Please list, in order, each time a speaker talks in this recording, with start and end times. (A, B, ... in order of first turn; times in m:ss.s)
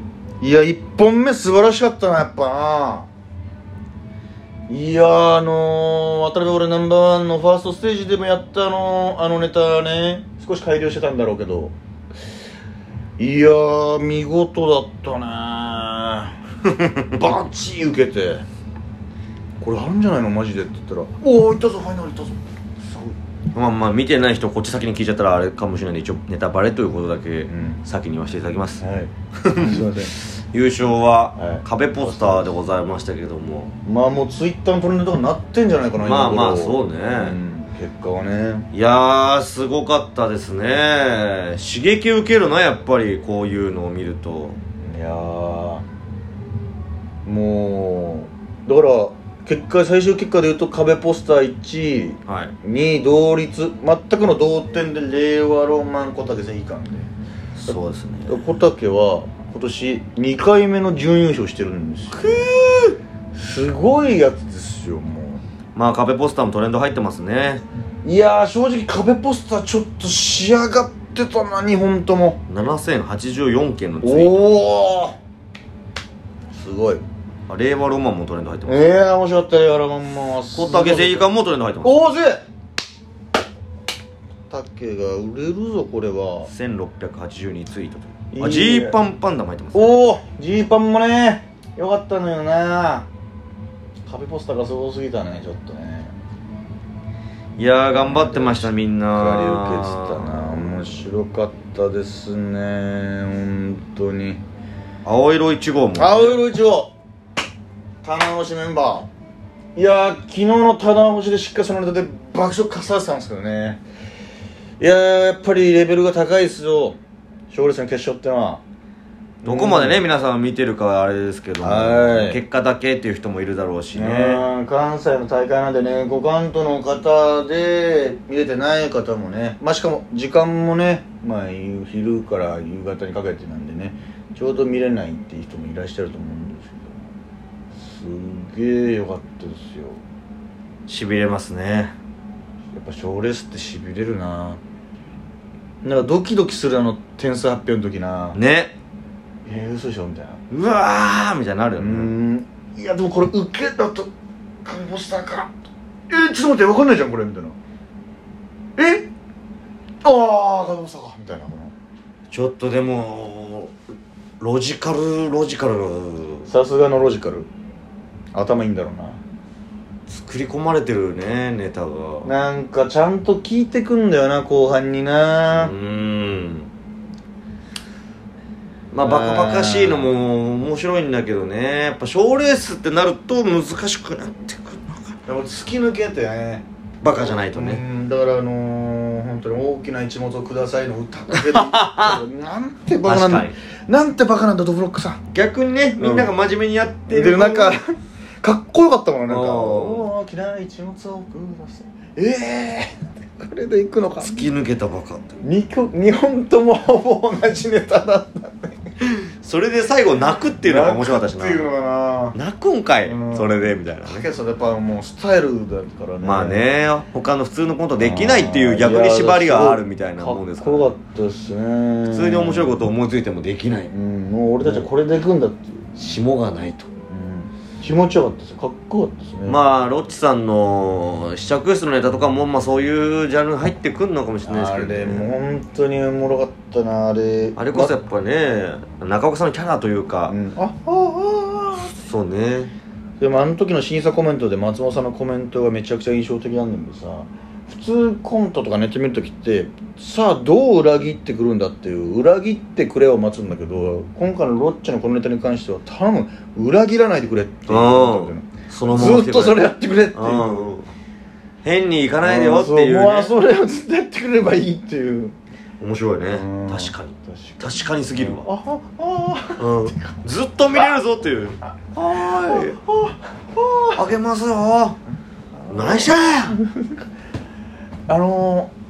0:00.4-0:03.1 A
0:04.7-0:11.7 A
0:13.2-0:16.4 A
0:17.1-0:18.4 A
0:19.6-0:23.1 A
0:23.5-0:28.8 B
0:27.5-0:27.8 A
0:28.8-0:30.1 A
0:29.4-0:33.7 B
0:31.4-0:32.5 A
0:33.8-0:38.7 A
0:36.0-0:37.4 B
0:38.7-0:44.6 B
0:44.8-0:45.8 A
0:47.2-0:57.1 A
0:52.2-0:52.5 B
0:57.6-0:58.4 B
0:57.7-1:02.4 A
1:02.2-1:03.0 B
1:03.3-1:05.4 A
1:05.7-1:07.6 B
1:08.0-1:12.4 A
1:12.5-1:14.4 B
1:14.0-1:15.2 A
1:16.5-1:17.0 A
1:17.5-1:18.8 B
1:18.6-1:22.4 A
1:20.5-1:22.0 B
1:24.5-1:26.5 A
1:26.5-1:29.9 B
1:28.3-1:29.0 A
1:29.7-1:33.1 A
1:34.1-1:36.1 A
1:37.6-1:40.8 B
1:38.0-1:44.4 A
1:45.0-1:46.4 B
1:45.9-1:46.9 A
1:48.0-1:49.1 A
1:49.7-1:53.8 A
1:54.8-1:57.0 A
1:57.5-1:58.6 A
1:59.4-2:00.0 A
1:59.4-2:04.4 B
2:01.6-2:02.4 A
2:03.9-2:17.0 A
2:17.7-2:20.0 A
2:20.9-2:21.9 B
2:22.7-2:24.6 A
2:25.8-2:28.4 A
2:28.3-2:28.7 B
2:29.4-2:30.4 A
2:30.5-2:32.1 B
2:31.8-2:34.1 A
2:34.6-2:35.6 A
2:36.1-2:37.6 A
2:38.8-2:39.1 A
2:40.0-2:41.7 A
2:42.3-2:43.7 B
2:44.4-2:46.5 B
2:46.5-2:47.5 A
2:48.3-2:49.2 A
2:50.1-2:52.3 B
2:52.2-2:55.7 A
2:55.5-2:56.7 B
2:58.9-3:05.2 B
2:59.0-3:00.1 A
3:05.2-3:15.2 A
3:07.0-3:07.8 B
3:11.3-3:12.2 B
3:13.0-3:13.6 B
3:15.3-3:17.8 B
3:16.0-3:16.3 A
3:17.1-3:24.5 A
3:19.3-3:20.1 B
3:24.2-3:25.4 B
3:25.4-3:28.8 A
3:29.0-3:31.6 B
3:30.6-3:32.4 A
3:32.3-3:34.3 B
3:33.0-3:36.6 A
3:36.2-3:40.9 B
3:38.0-3:42.8 A
3:42.1-3:43.9 B
3:43.9-3:46.2 A
3:44.6-3:44.9 B
3:46.0-3:46.9 B
3:47.1-3:49.6 A
3:49.4-3:55.3 B
3:54.4-3:57.9 A
3:57.6-4:00.3 B
4:00.3-4:01.9 A
4:02.0-4:02.7 B
4:03.2-4:20.5 A
4:17.7-4:20.9 B
4:21.6-4:23.3 B
4:22.2-4:25.4 A
4:25.8-4:28.5 B
4:26.3-4:30.1 A
4:29.6-4:32.8 B
4:31.9-4:34.0 A
4:33.9-4:35.0 B
4:35.5-4:37.0 A
4:35.7-4:36.6 B
4:38.1-4:38.7 A